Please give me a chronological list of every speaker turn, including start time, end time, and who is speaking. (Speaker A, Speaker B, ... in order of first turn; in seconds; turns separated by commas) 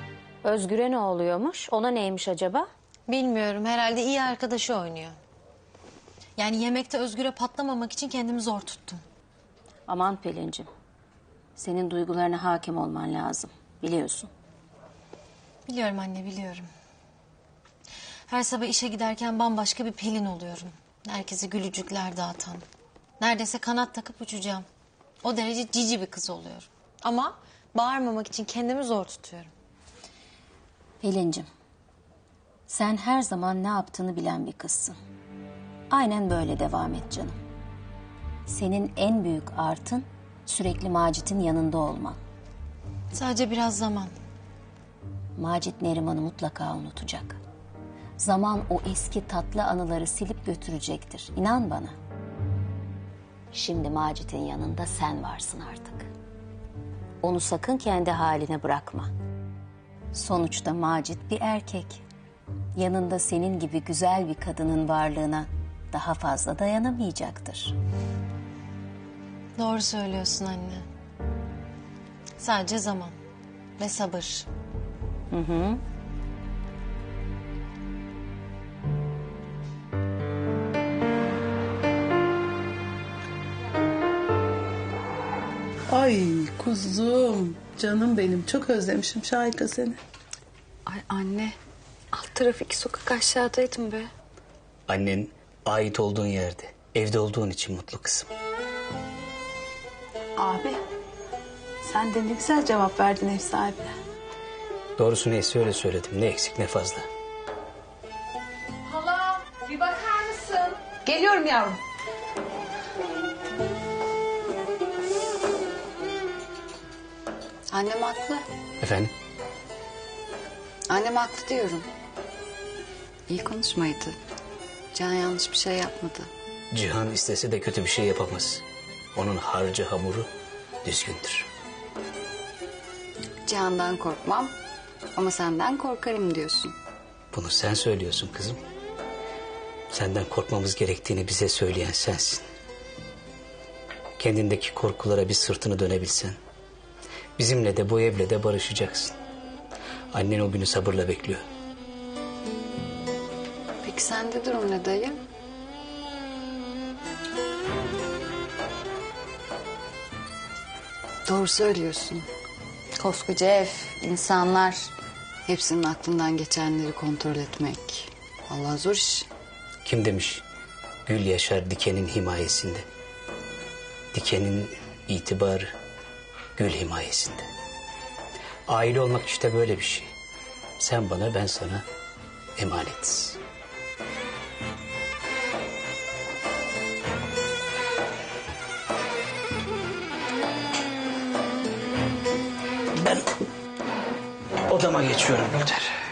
Speaker A: 0.4-2.7, Speaker B: 3.1-5.2, Speaker B: 6.4-9.0, Speaker A: 9.9-10.7, Speaker A: 11.6-14.3, Speaker B: 15.7-16.7, Speaker B: 18.3-22.6, Speaker B: 23.2-24.6, Speaker B: 25.2-29.5, Speaker A: 31.0-31.5, Speaker A: 32.7-35.0, Speaker A: 35.9-37.4, Speaker A: 38.5-42.2, Speaker B: 43.1-44.1, Speaker A: 45.4-47.4, Speaker A: 48.2-51.9, Speaker A: 53.5-56.1, Speaker A: 57.2-59.1, Speaker A: 60.1-62.0, Speaker A: 62.7-67.7, Speaker B: 69.5-70.8, Speaker B: 72.4-73.1, Speaker B: 73.8-74.5, Speaker A: 75.3-75.8, Speaker C: 85.9-90.0, Speaker D: 90.9-91.5, Speaker D: 92.1-94.1, Speaker E: 94.9-98.3, Speaker C: 100.4-100.8, Speaker C: 101.8-103.9, Speaker E: 105.0-107.0, Speaker D: 108.9-110.7, Speaker C: 111.0-111.8, Speaker D: 117.7-118.5, Speaker E: 118.8-119.1, Speaker D: 120.9-121.9, Speaker D: 123.3-124.2, Speaker D: 124.9-126.3, Speaker E: 126.7-128.6, Speaker E: 129.1-130.3, Speaker E: 130.8-131.5, Speaker D: 133.4-134.5, Speaker D: 135.1-136.7, Speaker E: 137.3-138.6, Speaker E: 139.9-142.4, Speaker E: 144.2-146.4, Speaker E: 147.4-149.1, Speaker E: 150.1-151.4, Speaker D: 153.8-155.2, Speaker D: 161.2-162.3, Speaker D: 162.9-164.9, Speaker D: 165.4-169.3, Speaker E: 169.8-170.4, Speaker E: 171.1-172.8, Speaker E: 174.1-175.7, Speaker E: 176.6-177.5, Speaker E: 178.7-180.1, Speaker E: 180.8-181.8, Speaker E: 182.6-183.4, Speaker E: 192.9-193.3, Speaker E: 194.7-195.9